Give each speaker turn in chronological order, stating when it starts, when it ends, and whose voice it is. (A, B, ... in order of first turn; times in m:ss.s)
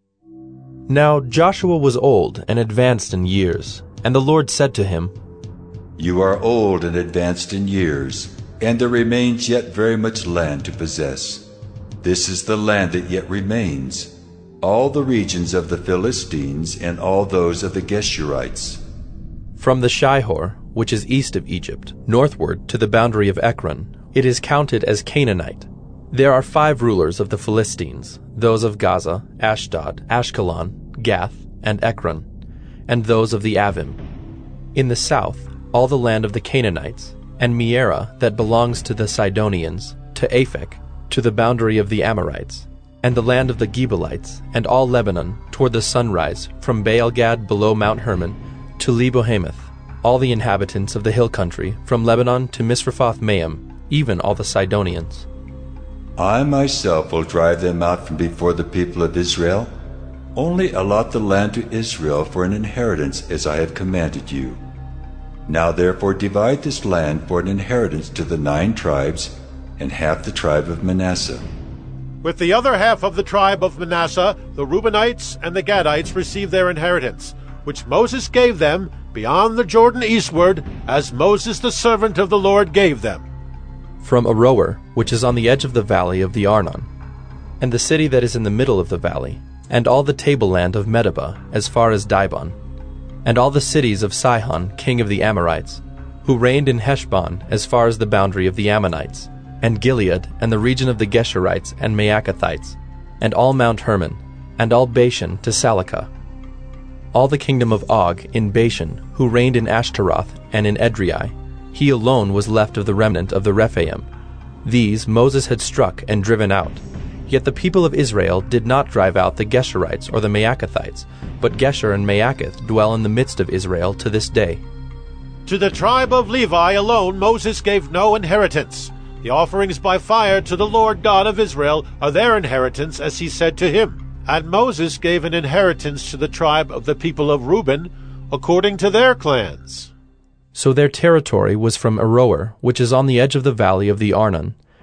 0:00.9-0:05.1 A
0:06.0-0:11.5 B
0:12.0-0:18.8 B
0:19.6-0:32.3 A
0:32.9-0:34.0 A
0:34.8-0:55.3 A
0:56.2-0:59.7 B
1:00.3-1:04.6 B
1:05.5-1:11.4 B
1:12.2-1:23.3 C
1:24.0-1:26.9 A
1:27.6-1:32.6 A
1:33.2-1:46.1 A
1:47.1-1:54.1 A
1:54.6-2:04.6 A
2:05.5-2:19.9 C
2:20.5-2:24.6 A